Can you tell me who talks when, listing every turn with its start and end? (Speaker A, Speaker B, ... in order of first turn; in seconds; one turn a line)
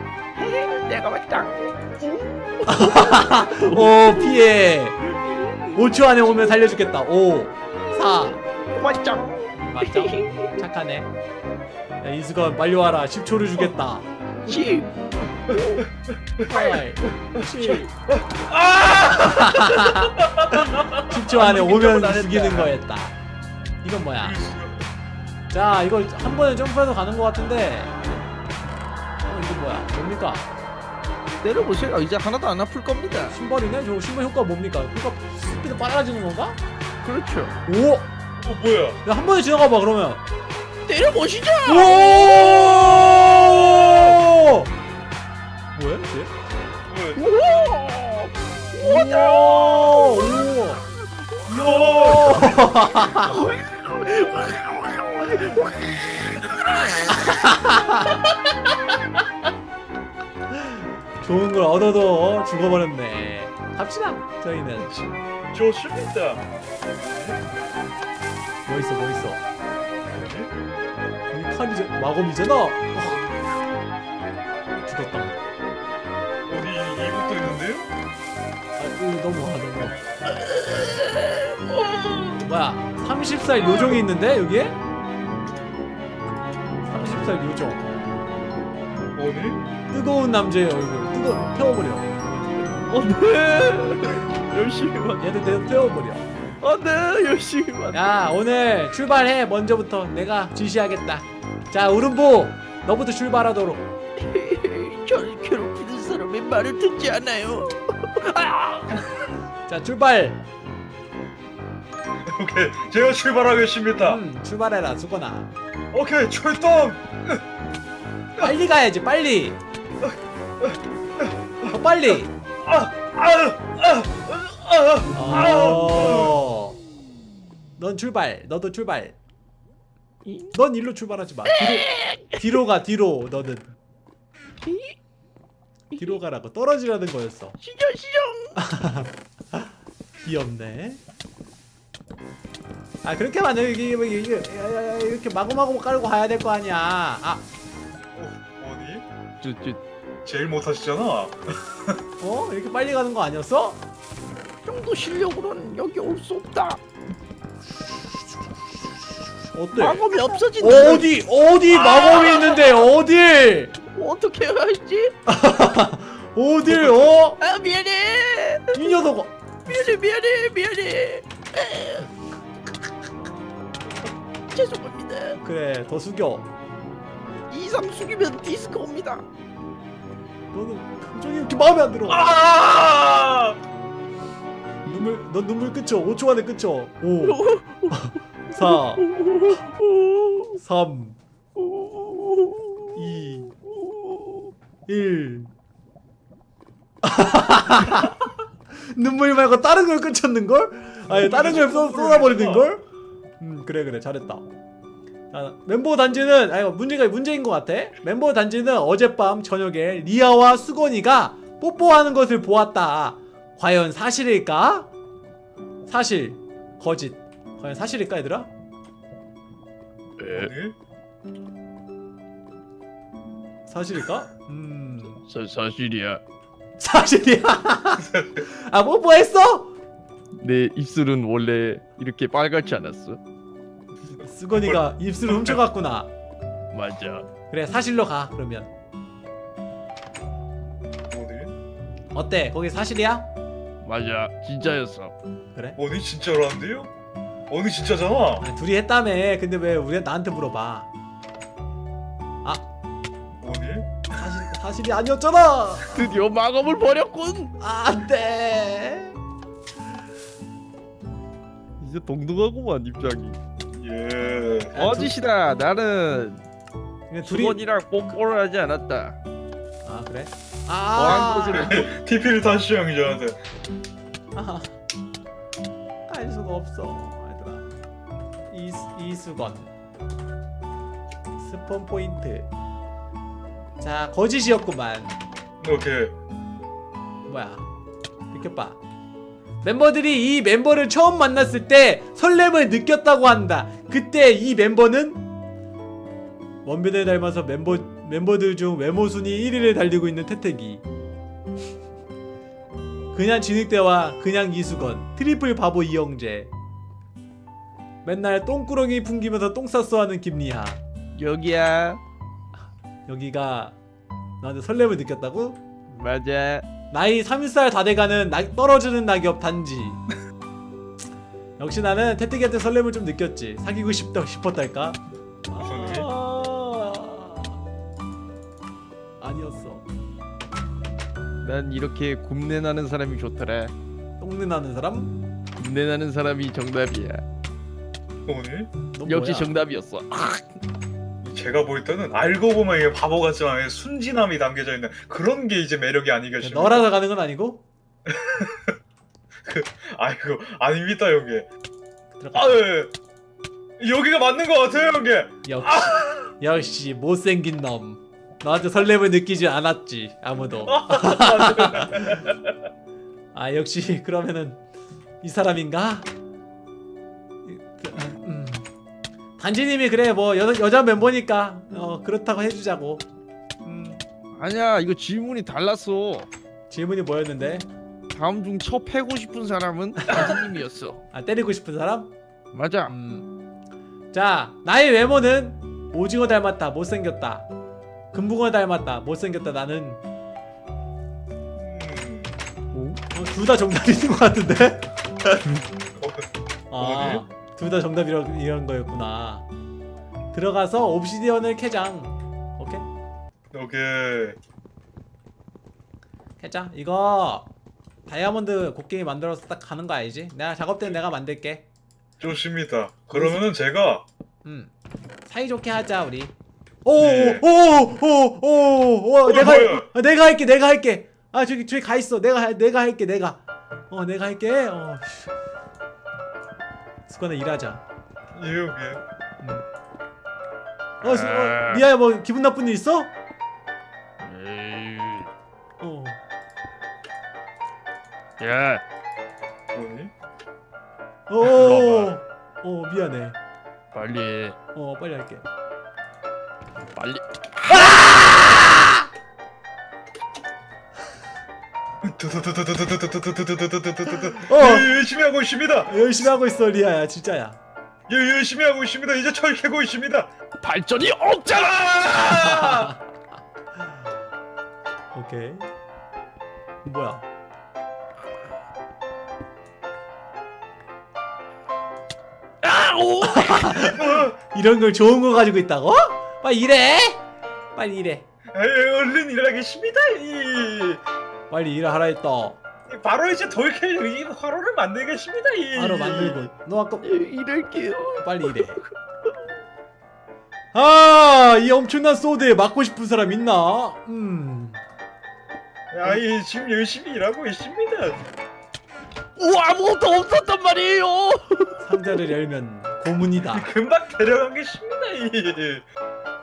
Speaker A: 0.3-4.5
Speaker B: 2.7-5.0
Speaker A: 5.1-5.8
Speaker B: 5.7-8.4
Speaker A: 7.9-10.6
Speaker B: 9.6-11.1
Speaker B: 12.0-14.8
Speaker A: 14.5-14.9
Speaker A: 15.4-15.8
Speaker C: 15.5-16.8
Speaker B: 16.4-17.9
Speaker A: 17.6-17.9
Speaker C: 18.1-19.4
Speaker B: 19.1-23.2
Speaker C: 20.2-21.1
Speaker A: 21.3-22.8
Speaker B: 23.8-24.4
Speaker C: 24.2-24.8
Speaker B: 25.5-28.0
Speaker B: 29.2-30.5
Speaker A: 31.4-33.4
Speaker B: 33.3-36.6
Speaker A: 37.0-37.6
Speaker B: 37.7-38.1
Speaker C: 38.4-39.0
Speaker B: 39.0-40.2
Speaker A: 40.9-43.1
Speaker B: 41.7-44.7
Speaker C: 42.7-44.2
Speaker B: 45.8-46.3
Speaker C: 46.9-47.3
Speaker A: 47.2-50.4
Speaker B: 48.8-50.8
Speaker A: 51.2-51.6
Speaker C: 51.5-52.6
Speaker B: 51.7-53.5
Speaker A: 53.0-57.4
Speaker B: 57.2-58.1
Speaker B: 60.5-64.9
Speaker C: 64.8-66.5
Speaker C: 67.0-67.4
Speaker B: 68.7-69.4
Speaker C: 70.1-70.5
Speaker B: 71.3-73.3
Speaker B: 74.9-75.4
Speaker C: 76.5-77.9
Speaker B: 78.8-80.0
Speaker A: 80.4-82.4
Speaker B: 82.4-84.8
Speaker B: 86.8-87.9
Speaker C: 89.1-89.6
Speaker B: 89.9-92.7
Speaker A: 92.9-95.3
Speaker B: 95.2-96.3
Speaker A: 96.6-98.0
Speaker B: 97.9-103.9
Speaker A: 104.2-109.0
Speaker B: 109.7-110.4
Speaker C: 112.3-114.2
Speaker B: 114.0-115.5
Speaker C: 115.9-117.4
Speaker B: 118.4-119.6
Speaker C: 120.0-126.4
Speaker B: 121.7-122.3
Speaker B: 125.2-126.8
Speaker A: 125.3-126.1
Speaker B: 127.8-129.2
Speaker A: 130.2-130.5
Speaker B: 130.5-133.7
Speaker A: 131.5-132.4
Speaker A: 134.6-135.0
Speaker B: 136.0-137.6
Speaker A: 137.6-138.6
Speaker B: 138.6-141.0
Speaker B: 143.0-147.4
Speaker C: 148.1-149.0
Speaker A: 149.4-149.8
Speaker C: 150.2-152.0
Speaker B: 152.2-153.8
Speaker A: 154.6-156.8
Speaker B: 159.5-160.0
Speaker A: 159.8-161.1
Speaker B: 160.6-163.8
Speaker A: 161.7-162.8
Speaker A: 163.9-165.2
Speaker B: 165.3-167.4
Speaker A: 166.7-168.9
Speaker B: 168.7-169.3
Speaker A: 169.7-172.1
Speaker A: 174.5-175.4
Speaker B: 175.4-176.5
Speaker A: 177.5-179.2
Speaker B: 180.5-182.3
Speaker C: 182.1-183.6
Speaker B: 184.9-189.1
Speaker A: 187.2-190.6
Speaker B: 190.6-191.2
Speaker A: 191.6-193.0
Speaker B: 192.9-193.6
Speaker A: 193.6-194.5
Speaker B: 194.9-195.5
Speaker B: 197.0-198.2
Speaker B: 198.7-202.8
Speaker C: 201.1-202.7
Speaker B: 203.4-204.4
Speaker B: 205.3-214.9
Speaker B: 215.8-218.5
Speaker A: 220.2-220.5
Speaker C: 220.3-220.8
Speaker B: 223.7-225.2
Speaker A: 225.2-226.2
Speaker B: 226.8-229.7
Speaker C: 228.0-228.4
Speaker A: 230.4-233.2
Speaker C: 234.1-235.6
Speaker B: 234.2-236.1
Speaker A: 236.7-237.3
Speaker B: 237.5-238.7
Speaker C: 241.1-241.5
Speaker B: 242.1-243.3
Speaker A: 243.8-245.1
Speaker C: 245.8-246.9
Speaker C: 247.5-248.4
Speaker B: 248.4-250.9
Speaker C: 253.4-254.2
Speaker B: 254.2-256.1
Speaker A: 255.9-257.6
Speaker B: 257.6-259.2
Speaker A: 261.8-263.4
Speaker C: 263.7-264.9
Speaker A: 264.8-266.4
Speaker B: 264.8-265.1
Speaker B: 267.1-267.6
Speaker A: 267.2-269.2
Speaker B: 269.8-271.8
Speaker A: 270.9-271.9
Speaker C: 271.6-273.4
Speaker B: 274.3-274.8
Speaker B: 276.1-277.7
Speaker B: 278.5-279.7
Speaker B: 281.4-282.5
Speaker B: 283.8-285.2
Speaker C: 285.6-286.1
Speaker B: 287.3-287.7
Speaker B: 288.3-288.8
Speaker B: 289.6-295.2
Speaker B: 296.6-300.8
Speaker B: 303.1-306.5
Speaker B: 308.1-310.8
Speaker A: 311.2-312.0
Speaker B: 313.1-313.8
Speaker B: 314.4-315.6
Speaker A: 315.9-316.7
Speaker B: 316.9-320.0
Speaker B: 321.6-327.6
Speaker C: 325.6-326.1
Speaker B: 329.2-329.9
Speaker A: 331.4-333.7
Speaker B: 334.2-335.1
Speaker A: 335.6-337.2
Speaker C: 338.3-338.7
Speaker B: 338.9-339.5
Speaker A: 339.1-340.5
Speaker C: 341.2-346.9
Speaker B: 346.4-347.6
Speaker C: 348.1-348.8
Speaker C: 349.4-351.5
Speaker B: 352.2-352.6
Speaker C: 352.3-352.9
Speaker C: 353.8-356.3
Speaker B: 355.4-362.2
Speaker C: 360.6-362.6
Speaker B: 363.3-364.6
Speaker B: 365.2-366.1
Speaker B: 367.4-368.7
Speaker B: 369.4-373.1
Speaker B: 373.6-374.0
Speaker A: 374.4-376.3
Speaker B: 376.7-377.7
Speaker A: 378.1-381.0
Speaker B: 381.1-382.1
Speaker A: 382.5-382.9
Speaker B: 382.9-383.3
Speaker B: 384.1-387.5
Speaker B: 388.1-390.0
Speaker C: 391.6-392.4
Speaker A: 392.7-393.0
Speaker B: 393.1-395.4
Speaker C: 396.0-397.2
Speaker B: 396.7-399.5
Speaker B: 400.3-402.9
Speaker C: 403.5-404.4
Speaker B: 406.4-407.5
Speaker B: 408.1-411.6
Speaker C: 412.2-414.1
Speaker B: 413.1-413.4
Speaker B: 414.4-414.7
Speaker B: 415.2-425.3
Speaker C: 417.0-417.4
Speaker C: 419.3-419.9
Speaker B: 427.1-427.8
Speaker C: 428.3-429.0
Speaker A: 431.0-431.8
Speaker B: 431.0-433.1
Speaker A: 434.2-435.3
Speaker B: 435.8-436.2
Speaker A: 438.4-438.8
Speaker C: 439.7-440.1
Speaker B: 441.3-443.4
Speaker A: 441.4-442.1
Speaker A: 443.9-444.6
Speaker B: 444.8-445.4
Speaker A: 446.9-448.2
Speaker B: 447.7-449.1
Speaker C: 452.0-456.3
Speaker B: 454.3-454.9
Speaker B: 455.9-457.6
Speaker C: 458.1-460.3
Speaker A: 460.6-462.9
Speaker B: 462.4-463.0
Speaker B: 465.1-465.7
Speaker B: 466.8-467.2
Speaker A: 472.6-473.8
Speaker B: 473.2-477.2
Speaker C: 473.8-474.4
Speaker B: 477.7-478.3
Speaker C: 478.5-481.0
Speaker B: 481.5-482.6
Speaker C: 482.9-486.5
Speaker B: 485.7-487.1
Speaker A: 487.0-489.4
Speaker B: 488.2-488.8
Speaker B: 490.7-494.8
Speaker C: 495.9-498.2
Speaker A: 499.4-501.8
Speaker B: 501.8-503.7
Speaker C: 503.4-505.9